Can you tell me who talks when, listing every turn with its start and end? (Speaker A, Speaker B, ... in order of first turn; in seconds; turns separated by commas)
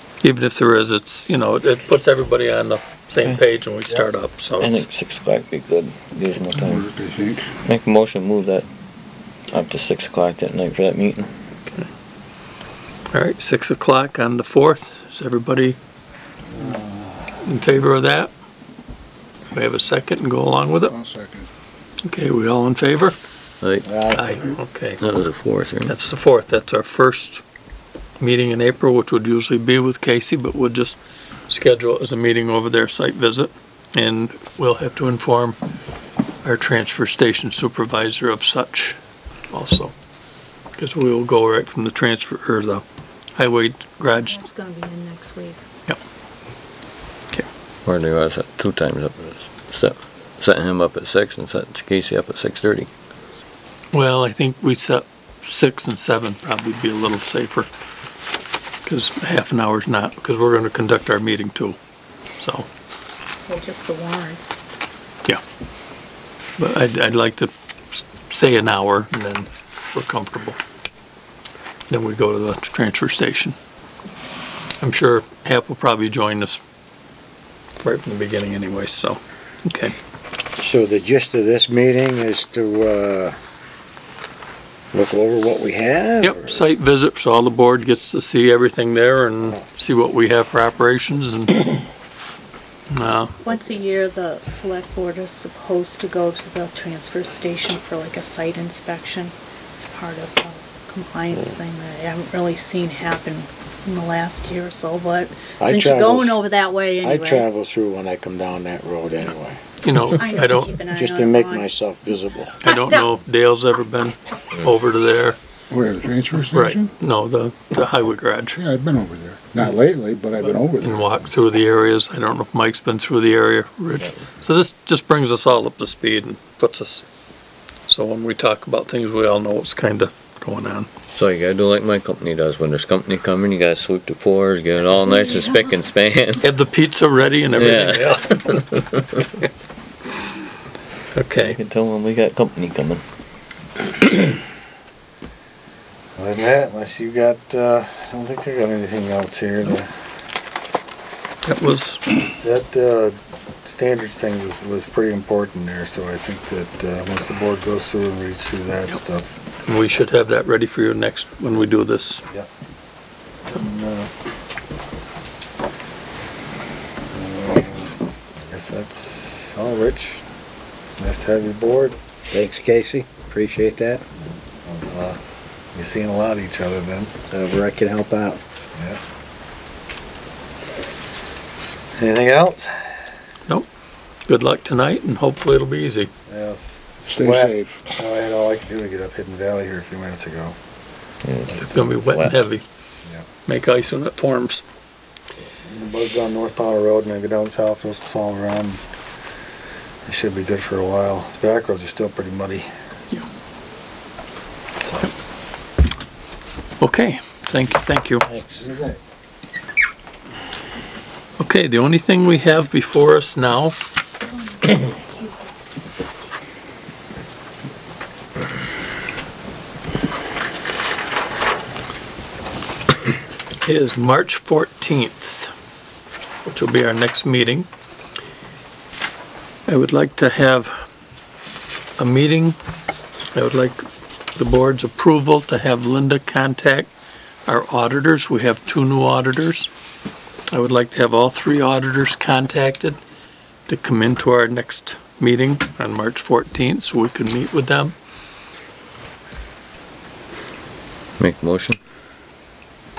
Speaker A: 0.2-4.8, Speaker B: 4.6-6.8, Speaker C: 6.6-7.5, Speaker B: 7.6-8.7, Speaker B: 9.5-11.3, Speaker A: 13.1-15.8, Speaker A: 17.4-18.3, Speaker A: 19.5-20.9, Speaker C: 20.9-21.5, Speaker A: 22.0-23.1, Speaker B: 23.6-23.9, Speaker D: 23.8-24.3, Speaker A: 24.1-25.0, Speaker B: 25.0-25.9, Speaker A: 25.9-27.4, Speaker A: 28.2-31.0, Speaker A: 31.5-35.6, Speaker A: 36.4-39.0, Speaker A: 39.5-39.9, Speaker A: 40.8-42.8, Speaker A: 43.4-44.4, Speaker E: 44.1-45.6, Speaker B: 47.8-52.9, Speaker A: 53.9-57.7, Speaker A: 58.8-61.8, Speaker A: 62.4-62.7, Speaker E: 63.5-64.6, Speaker A: 66.6-70.6, Speaker A: 71.9-73.5, Speaker A: 74.8-76.6, Speaker A: 77.8-79.9, Speaker D: 80.6-83.3, Speaker D: 84.9-86.6, Speaker A: 86.2-91.8, Speaker A: 92.9-93.3, Speaker E: 93.4-107.5, Speaker D: 105.6-106.4, Speaker D: 107.0-109.6, Speaker A: 109.8-110.7, Speaker E: 110.1-111.7, Speaker D: 110.8-112.6, Speaker A: 112.6-115.4, Speaker E: 112.7-113.0, Speaker C: 115.7-116.9, Speaker A: 116.5-118.6, Speaker C: 118.5-121.1, Speaker A: 120.4-127.0, Speaker A: 127.9-130.9, Speaker B: 131.2-136.5, Speaker A: 136.4-139.4, Speaker B: 137.5-138.6, Speaker A: 141.1-141.6, Speaker B: 141.3-143.0, Speaker F: 146.2-149.9, Speaker A: 151.4-152.1, Speaker F: 152.2-159.3, Speaker A: 159.7-162.2, Speaker F: 163.4-164.1, Speaker F: 167.1-167.9, Speaker F: 168.5-170.2, Speaker F: 171.0-172.0, Speaker D: 172.3-174.0, Speaker F: 174.6-175.2, Speaker F: 175.7-177.1, Speaker D: 177.3-178.4, Speaker F: 182.0-183.0, Speaker A: 184.3-186.1, Speaker F: 186.3-190.6, Speaker C: 187.0-187.9, Speaker B: 191.2-192.4, Speaker A: 191.6-192.6, Speaker A: 193.4-194.6, Speaker F: 195.7-198.8, Speaker F: 200.1-202.7, Speaker F: 204.8-205.1, Speaker A: 206.8-208.3, Speaker D: 208.2-208.7, Speaker F: 208.6-209.0, Speaker A: 211.4-213.8, Speaker E: 214.6-215.4, Speaker A: 223.6-225.5, Speaker A: 226.4-227.7, Speaker A: 229.7-230.7, Speaker A: 232.0-232.6, Speaker A: 233.3-233.8, Speaker A: 234.3-236.9, Speaker A: 237.5-239.7, Speaker A: 240.5-243.0, Speaker A: 243.7-247.9, Speaker B: 251.2-251.8